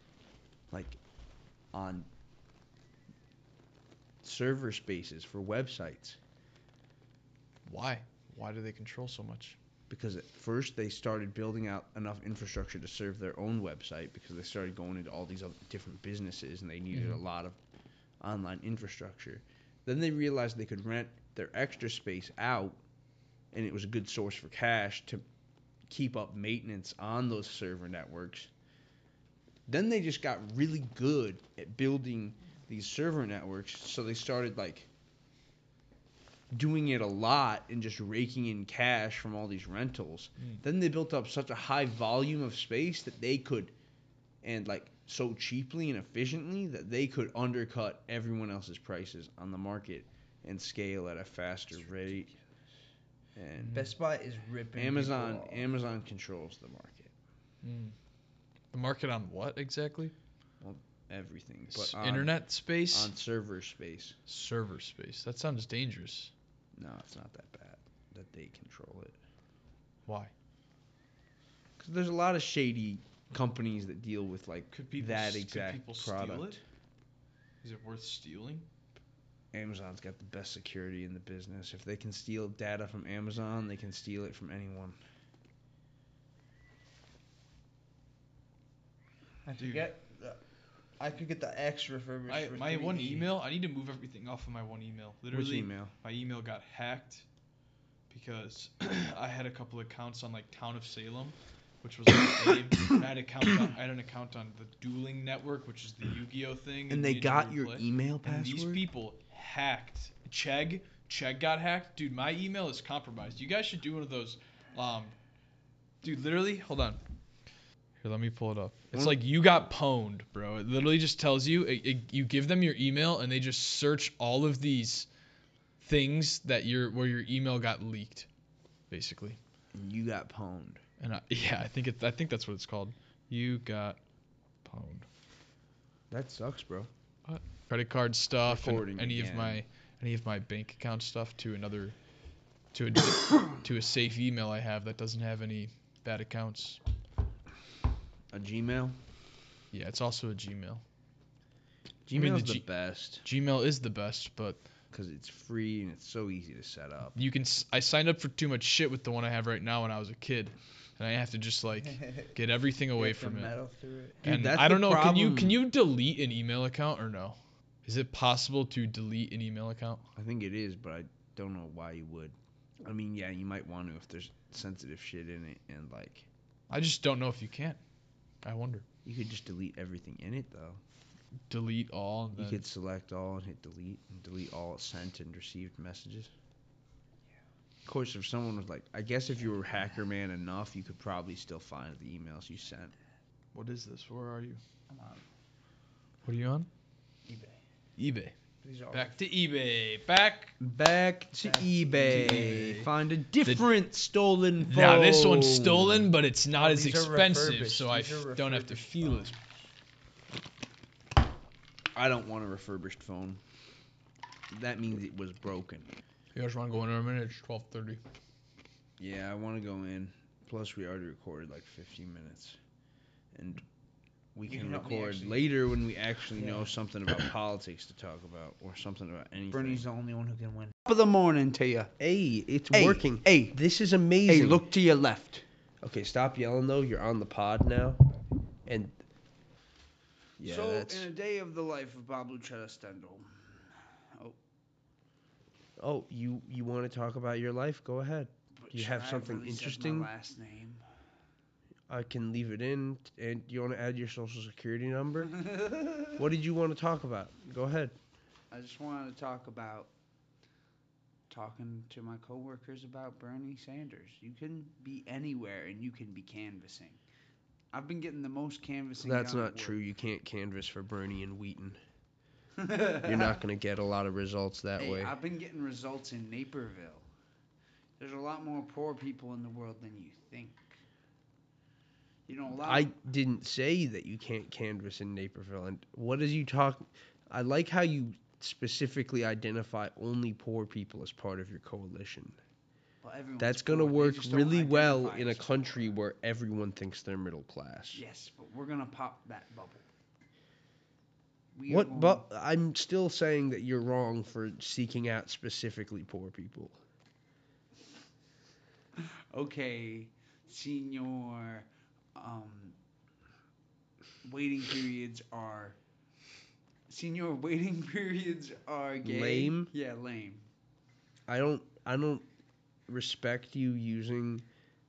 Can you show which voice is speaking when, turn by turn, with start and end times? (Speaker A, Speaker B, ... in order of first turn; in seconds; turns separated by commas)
Speaker A: 0.7-1.0, Speaker A: 1.7-2.1, Speaker A: 4.2-6.2, Speaker B: 7.7-9.6, Speaker A: 9.9-17.6, Speaker B: 16.9-17.2, Speaker A: 18.2-22.8, Speaker A: 23.5-25.2, Speaker A: 25.9-28.5, Speaker A: 29.7-34.9, Speaker A: 36.5-43.7, Speaker A: 44.4-52.3, Speaker A: 53.4-53.9, Speaker C: 53.7-55.7, Speaker A: 54.8-57.1, Speaker B: 57.6-57.9, Speaker B: 58.7-60.1, Speaker A: 60.6-62.4, Speaker B: 61.7-63.1, Speaker A: 62.9-64.2, Speaker B: 64.3-66.3, Speaker A: 66.8-69.2, Speaker B: 70.0-70.3, Speaker A: 71.8-76.6, Speaker B: 74.7-76.6, Speaker B: 77.6-78.7, Speaker A: 79.5-85.0, Speaker C: 89.5-90.4, Speaker B: 89.6-89.9, Speaker C: 91.0-93.3, Speaker B: 92.3-97.2, Speaker A: 95.3-95.9, Speaker B: 98.1-115.1, Speaker A: 106.9-108.8, Speaker B: 116.0-117.0, Speaker B: 118.0-125.1, Speaker B: 125.8-128.3, Speaker B: 128.9-129.4, Speaker A: 129.7-130.8, Speaker B: 131.0-134.0, Speaker B: 134.6-135.1, Speaker A: 136.1-136.9, Speaker B: 137.2-141.9, Speaker A: 138.4-139.6, Speaker B: 142.7-146.8, Speaker A: 148.3-149.0, Speaker B: 149.7-150.8, Speaker A: 152.1-153.2, Speaker B: 152.1-152.7, Speaker B: 153.2-154.6, Speaker A: 154.9-157.2, Speaker B: 157.1-163.5, Speaker C: 162.9-164.2, Speaker A: 164.2-165.6, Speaker B: 164.2-170.1, Speaker A: 170.2-176.3, Speaker B: 176.7-177.8, Speaker B: 178.4-178.8, Speaker A: 179.0-180.8, Speaker B: 181.5-182.6, Speaker A: 182.3-186.3, Speaker A: 187.8-192.9, Speaker B: 193.5-194.6, Speaker C: 194.9-195.2, Speaker B: 196.2-196.7, Speaker C: 197.2-197.6, Speaker B: 198.0-198.3, Speaker C: 198.6-199.2, Speaker B: 198.9-200.6, Speaker A: 200.6-206.1, Speaker C: 201.4-202.7, Speaker B: 202.1-202.9, Speaker B: 204.6-209.3, Speaker C: 206.5-209.4, Speaker A: 211.9-213.4, Speaker A: 214.5-215.9, Speaker B: 216.3-218.0, Speaker A: 219.0-222.6, Speaker A: 223.3-223.6, Speaker A: 224.3-229.8, Speaker C: 224.4-225.5, Speaker C: 226.3-226.7, Speaker C: 229.5-231.9, Speaker A: 232.0-234.7, Speaker C: 232.7-233.6, Speaker C: 234.2-235.4, Speaker A: 235.8-238.0, Speaker A: 238.7-238.9, Speaker A: 240.4-241.1, Speaker C: 240.4-244.4, Speaker A: 245.8-250.1, Speaker C: 248.6-250.8, Speaker A: 251.9-255.3, Speaker C: 255.4-256.1, Speaker A: 256.1-257.9, Speaker C: 258.5-259.9, Speaker C: 261.3-267.0, Speaker C: 267.7-269.8, Speaker A: 269.0-271.8, Speaker C: 272.6-273.4, Speaker A: 273.0-275.1, Speaker C: 274.8-277.1, Speaker C: 278.0-280.8, Speaker C: 282.3-282.9, Speaker A: 282.6-292.4, Speaker C: 293.0-295.9, Speaker A: 293.4-298.0, Speaker C: 297.9-299.9, Speaker C: 301.5-302.2, Speaker A: 301.7-306.8, Speaker C: 309.0-312.8, Speaker C: 314.2-315.8, Speaker C: 316.9-320.5, Speaker A: 319.0-319.7, Speaker A: 321.3-322.2, Speaker A: 322.9-324.4